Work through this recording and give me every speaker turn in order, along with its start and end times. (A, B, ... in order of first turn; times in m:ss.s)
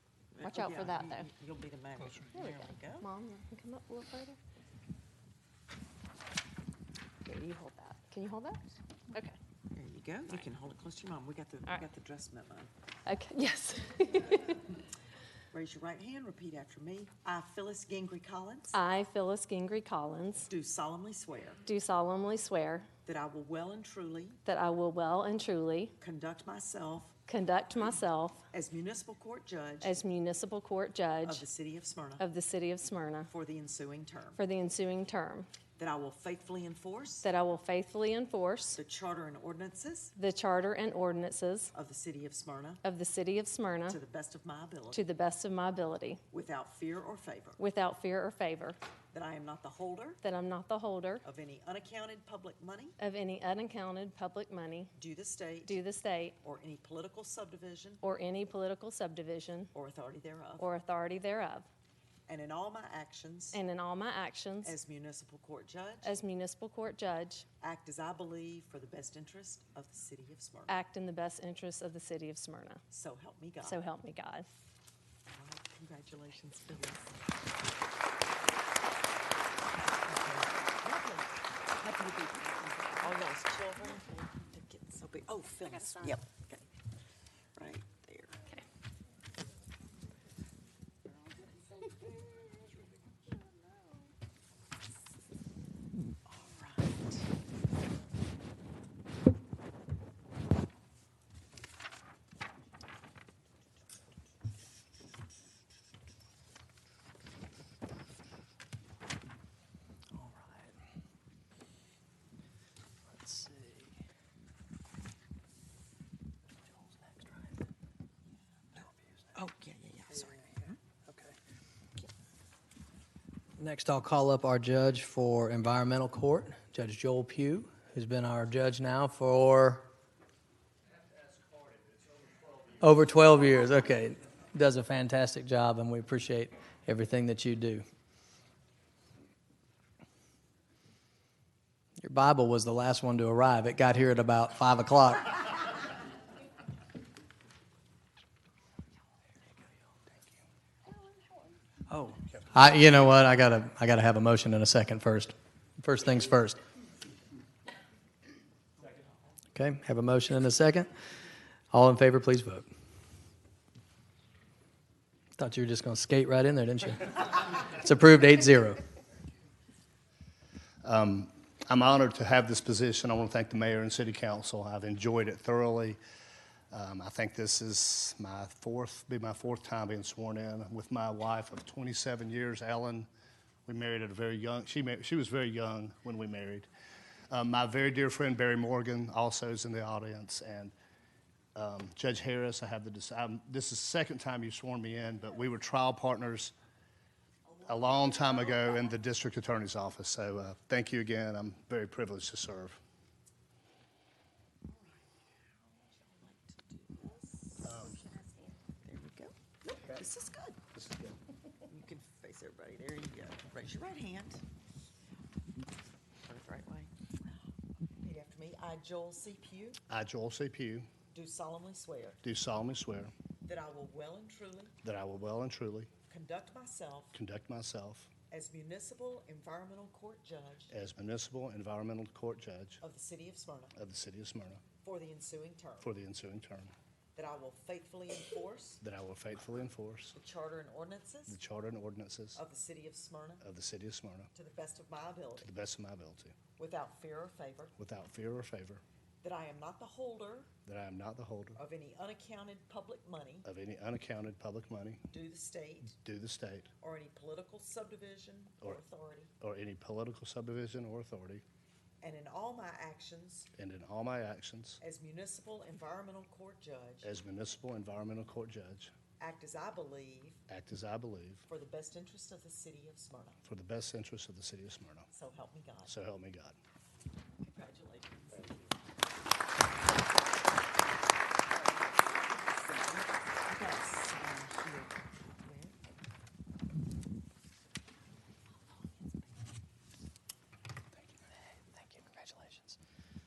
0:00.3-0:03.1 A
0:00.4-0:01.3 B
0:02.3-0:04.4 B
0:07.2-0:09.4 B
0:09.7-0:12.7 A
0:13.0-0:14.6 B
0:15.5-0:18.8 A
0:18.7-0:20.5 B
0:20.5-0:21.6 A
0:21.6-0:22.9 B
0:23.0-0:24.4 A
0:24.4-0:26.0 B
0:26.0-0:27.2 A
0:27.3-0:28.4 B
0:28.5-0:30.0 A
0:29.8-0:31.4 B
0:31.2-0:32.2 A
0:32.2-0:33.3 B
0:33.3-0:34.4 A
0:34.4-0:35.5 B
0:35.8-0:37.3 A
0:37.2-0:38.8 B
0:38.8-0:40.2 A
0:40.2-0:41.7 B
0:41.7-0:42.8 A
0:42.8-0:44.0 B
0:43.9-0:45.0 A
0:44.9-0:46.2 B
0:46.3-0:47.6 A
0:47.6-0:48.8 B
0:49.1-0:50.2 A
0:50.2-0:51.2 B
0:51.2-0:53.0 A
0:53.0-0:54.9 B
0:55.0-0:55.8 A
0:55.6-0:56.4 B
0:56.4-0:58.0 A
0:58.0-0:59.7 B
0:59.7-1:00.7 A
1:00.6-1:01.7 B
1:02.3-1:03.6 A
1:03.5-1:04.8 B
1:04.6-1:06.2 A
1:06.0-1:07.4 B
1:07.6-1:10.8 A
1:10.7-1:12.8 B
1:12.9-1:13.8 A
1:13.6-1:14.5 B
1:15.3-1:17.4 A
1:20.0-1:20.8 A
1:20.8-1:21.2 B
1:21.8-1:22.9 B
1:22.9-1:26.7 A
1:27.6-1:28.4 A
1:36.2-1:37.2 A
1:50.1-1:50.8 C
1:53.1-1:54.0 C
1:56.8-1:57.6 C
1:59.3-2:00.7 A
2:01.0-2:01.4 C
2:03.6-2:09.9 C
2:11.0-2:12.7 D
2:12.8-2:17.8 C
2:22.0-2:25.6 C
2:31.9-2:36.6 C
2:39.5-2:40.9 C
2:41.7-2:42.7 C
2:45.4-2:48.8 C
2:50.8-2:56.0 D
2:56.7-3:03.1 D
3:03.7-3:06.7 D
3:07.3-3:10.7 D
3:11.5-3:16.5 D
3:17.6-3:22.8 D
3:24.7-3:25.0 A
3:25.7-3:27.9 A
3:27.6-3:28.0 D
3:28.8-3:30.6 A
3:30.8-3:31.2 D
3:31.7-3:34.4 A
3:36.2-3:36.9 A
3:38.0-3:39.8 A
3:39.9-3:40.9 D
3:41.1-3:42.2 A
3:42.2-3:43.1 D
3:43.4-3:44.8 A
3:44.8-3:45.9 D
3:46.1-3:47.2 A
3:47.1-3:48.1 D
3:48.3-3:50.7 A
3:50.7-3:52.8 D
3:52.8-3:53.8 A
3:53.8-3:54.6 D
3:54.8-3:55.9 A
3:55.8-3:56.7 D
3:57.1-3:58.8 A
3:58.8-4:00.1 D
4:00.1-4:01.4 A
4:01.3-4:02.4 D
4:02.3-4:03.4 A
4:03.4-4:04.3 D
4:04.3-4:05.5 A
4:05.4-4:06.3 D
4:06.6-4:07.8 A
4:07.8-4:08.8 D
4:09.2-4:10.5 A
4:10.7-4:11.6 D
4:11.6-4:13.5 A
4:13.4-4:15.0 D
4:15.1-4:16.0 A
4:15.9-4:16.7 D
4:16.8-4:19.3 A
4:19.4-4:21.4 D
4:22.0-4:23.5 A
4:23.6-4:24.8 D
4:24.8-4:27.1 A
4:27.0-4:28.9 D
4:29.2-4:30.4 A
4:30.5-4:31.4 D
4:31.5-4:33.4 A
4:33.4-4:35.1 D
4:35.1-4:35.9 A
4:35.9-4:36.6 D
4:37.4-4:38.7 A
4:42.3-4:45.8 A
4:51.7-4:52.8 C